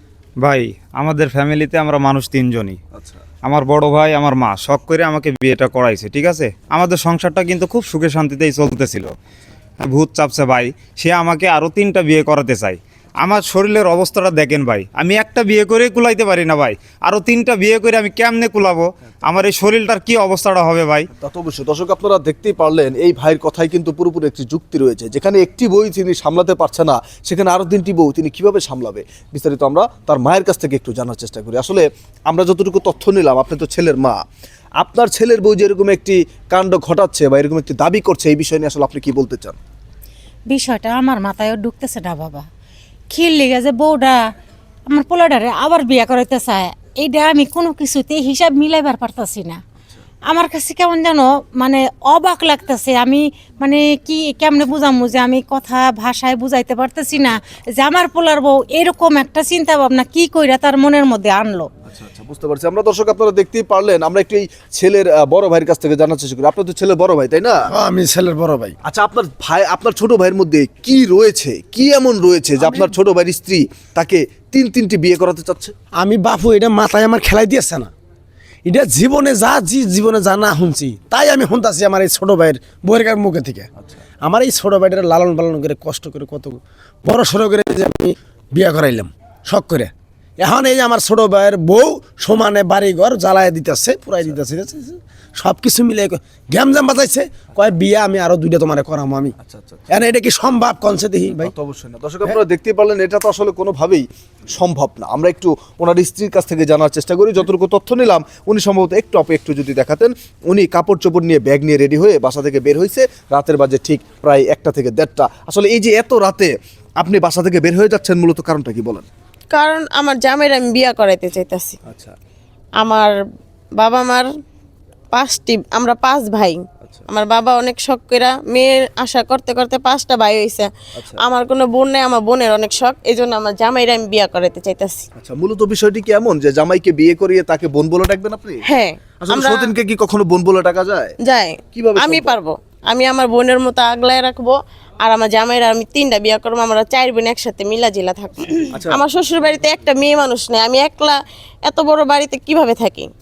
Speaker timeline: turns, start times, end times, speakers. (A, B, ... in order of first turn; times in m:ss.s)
0:00.4-0:02.8 A
0:03.4-0:09.1 A
0:09.8-0:21.1 A
0:21.1-0:34.2 B
0:34.8-0:39.6 B
0:40.5-0:42.4 C
0:43.1-0:44.2 C
0:44.9-0:49.6 C
0:50.3-1:01.7 C
1:01.8-1:07.7 B
1:07.7-1:08.7 D
1:08.8-1:15.7 B
1:16.0-1:17.9 D
1:18.6-1:23.7 D
1:24.2-1:39.3 D
1:39.4-1:39.9 B
1:39.9-1:41.5 D
1:41.4-1:59.1 B
1:59.5-2:01.8 E
2:01.8-2:02.1 B
2:02.8-2:03.1 E
2:03.8-2:04.3 E
2:05.1-2:10.7 E
2:11.2-2:15.0 E
2:15.1-2:18.6 B
2:18.7-2:19.7 E
2:19.2-2:21.1 B
2:21.2-2:33.1 E
2:21.7-2:22.4 B
2:28.7-2:29.0 B